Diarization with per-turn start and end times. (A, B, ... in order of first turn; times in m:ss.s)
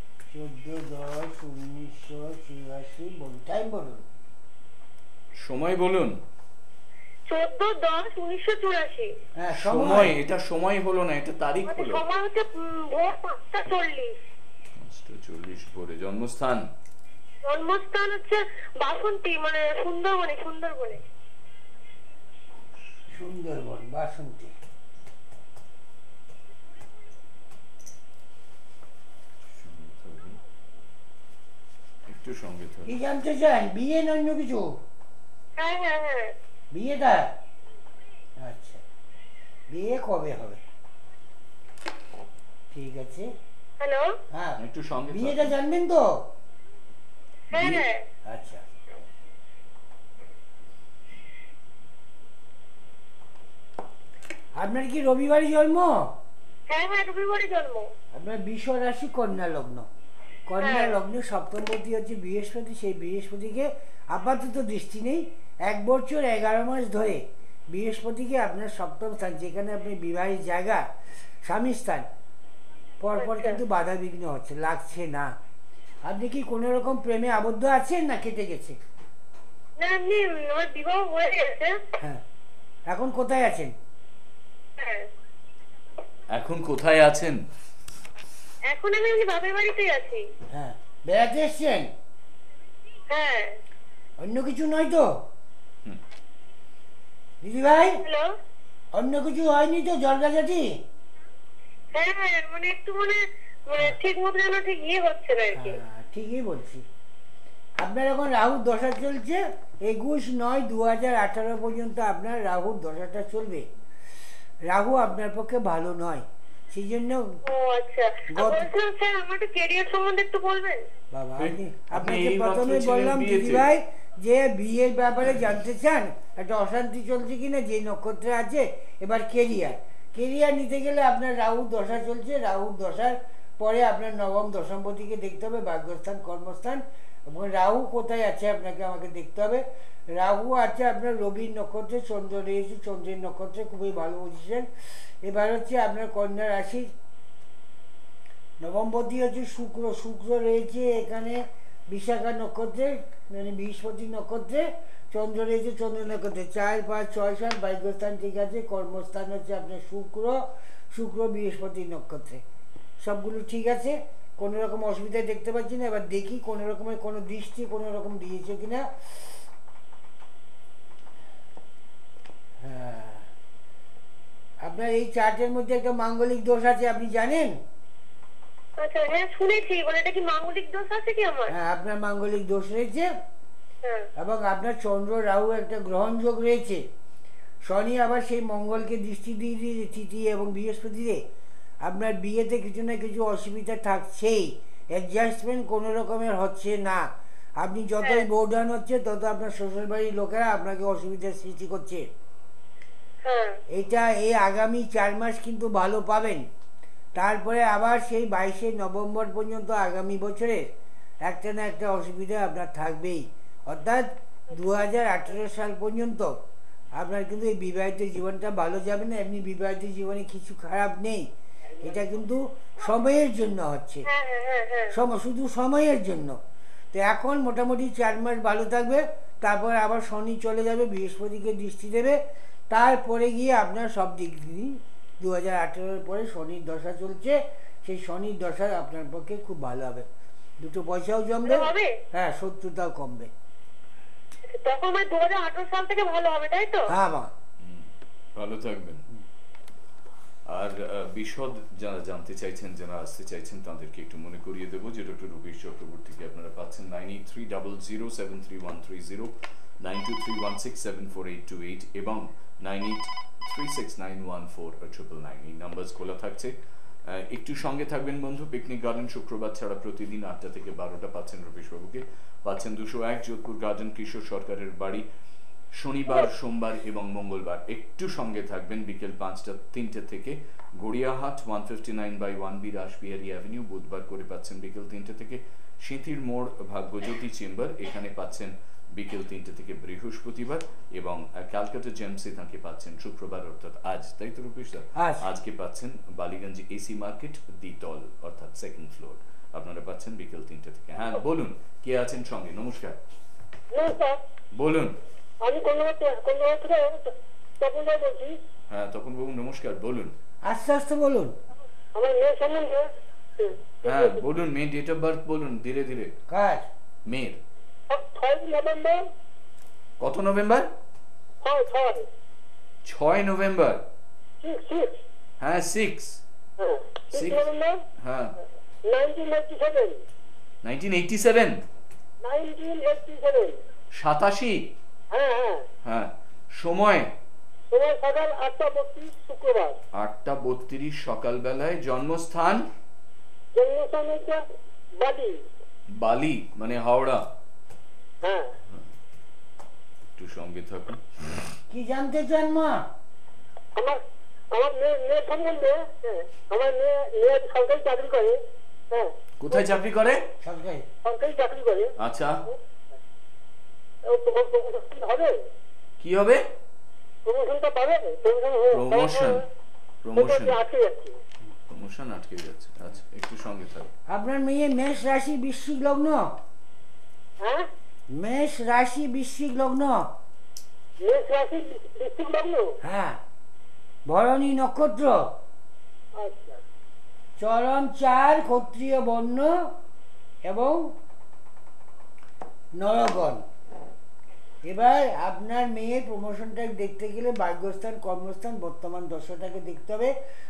0:00.3-0:04.0 A
0:05.4-0:06.2 B
0:07.3-0:09.1 C
0:09.4-0:10.1 A
0:09.5-0:12.0 B
0:11.7-0:14.1 C
0:14.8-0:16.7 B
0:17.4-0:21.0 C
0:23.1-0:24.5 A
0:29.4-0:30.4 B
0:32.1-0:32.9 B
0:32.8-0:34.8 A
0:35.6-0:36.3 C
0:36.7-0:37.4 A
0:38.4-0:38.8 A
0:39.7-0:40.6 A
0:42.7-0:43.3 A
0:43.8-0:44.1 C
0:44.3-0:46.3 A
0:44.6-0:45.5 B
0:47.5-0:47.8 B
0:47.5-0:48.0 C
0:48.3-0:48.6 A
0:54.6-0:56.2 A
0:56.7-0:57.9 C
0:58.1-0:59.9 A
1:00.5-1:10.8 A
1:00.6-1:01.0 C
1:11.4-1:12.1 A
1:13.0-1:15.4 A
1:13.2-1:13.6 C
1:16.0-1:18.8 A
1:19.8-1:21.8 C
1:22.9-1:23.7 A
1:24.8-1:25.1 C
1:26.3-1:27.4 B
1:28.7-1:30.2 C
1:30.5-1:31.9 A
1:33.1-1:33.6 C
1:34.2-1:35.1 A
1:37.4-1:38.0 A
1:38.0-1:38.3 C
1:38.9-1:40.8 A
1:41.9-1:45.8 C
1:45.5-1:46.8 A
1:47.8-1:53.7 A
1:54.7-1:57.4 A
1:57.4-2:00.8 C
1:58.3-1:58.7 A
2:01.1-2:24.7 A
2:01.4-2:03.7 B
2:25.2-2:26.9 A
2:28.6-2:42.4 A
2:43.0-2:48.8 A
2:52.6-2:53.3 A
2:54.6-2:57.6 A
2:58.8-3:01.5 C
3:01.5-3:03.1 A
3:03.8-3:04.1 C
3:04.2-3:06.8 A
3:07.6-3:11.2 A
3:11.8-3:22.1 A
3:23.2-3:23.6 C
3:23.7-3:26.5 A
3:27.1-3:30.7 A
3:31.2-3:36.4 A
3:36.9-3:41.3 A
3:41.8-3:44.1 A
3:44.1-3:44.9 C
3:44.9-3:46.4 A
3:46.9-3:52.2 A
3:52.7-4:00.1 A
4:00.6-4:03.3 A
4:01.4-4:02.0 C
4:04.4-4:06.9 C
4:06.9-4:07.3 A
4:07.6-4:09.0 B
4:10.5-4:35.0 B
4:35.7-5:03.0 B
4:54.9-4:55.2 A
5:03.7-5:04.2 C
5:04.5-5:05.0 B
5:05.4-5:08.4 C
5:08.7-5:10.1 B
5:10.4-5:11.3 A
5:11.9-5:14.2 C
5:13.8-5:16.2 B
5:16.3-5:16.7 A
5:17.0-5:17.4 B
5:17.9-5:19.1 C
5:20.0-5:20.7 B
5:21.4-5:22.0 C
5:22.8-5:23.8 B
5:24.4-5:25.0 C
5:25.4-5:26.2 B
5:26.6-5:27.8 C
5:27.1-5:27.5 B
5:28.0-5:28.4 B
5:28.8-5:30.0 C
5:30.6-5:31.6 B
5:32.2-5:33.6 C
5:33.9-5:34.7 B
5:35.1-5:35.6 C
5:35.8-5:37.1 B
5:37.7-5:39.8 C
5:40.0-5:42.7 B
5:43.5-5:44.4 C
5:45.0-5:45.4 C
5:45.9-5:47.2 B
5:48.2-5:48.5 C
5:50.2-5:51.5 B
5:51.7-5:52.8 A
5:53.8-5:58.4 C
5:58.9-5:59.6 C
5:59.4-6:00.2 B
6:00.4-6:00.8 A
6:01.0-6:01.9 C
6:02.0-6:02.4 B
6:04.0-6:05.4 C
6:06.0-6:06.4 B
6:07.2-6:09.4 C
6:08.7-6:09.4 B
6:10.0-6:10.6 B
6:10.2-6:11.2 C
6:11.7-6:13.9 B
6:14.1-6:16.3 A
6:17.4-6:17.7 C
6:18.1-6:20.1 A
6:21.0-6:22.7 C
6:22.8-6:23.2 A
6:24.1-6:25.3 A
6:26.2-6:26.6 C
6:27.4-6:29.7 A
6:30.4-6:30.9 A
6:32.8-6:33.4 A
6:34.6-6:40.1 A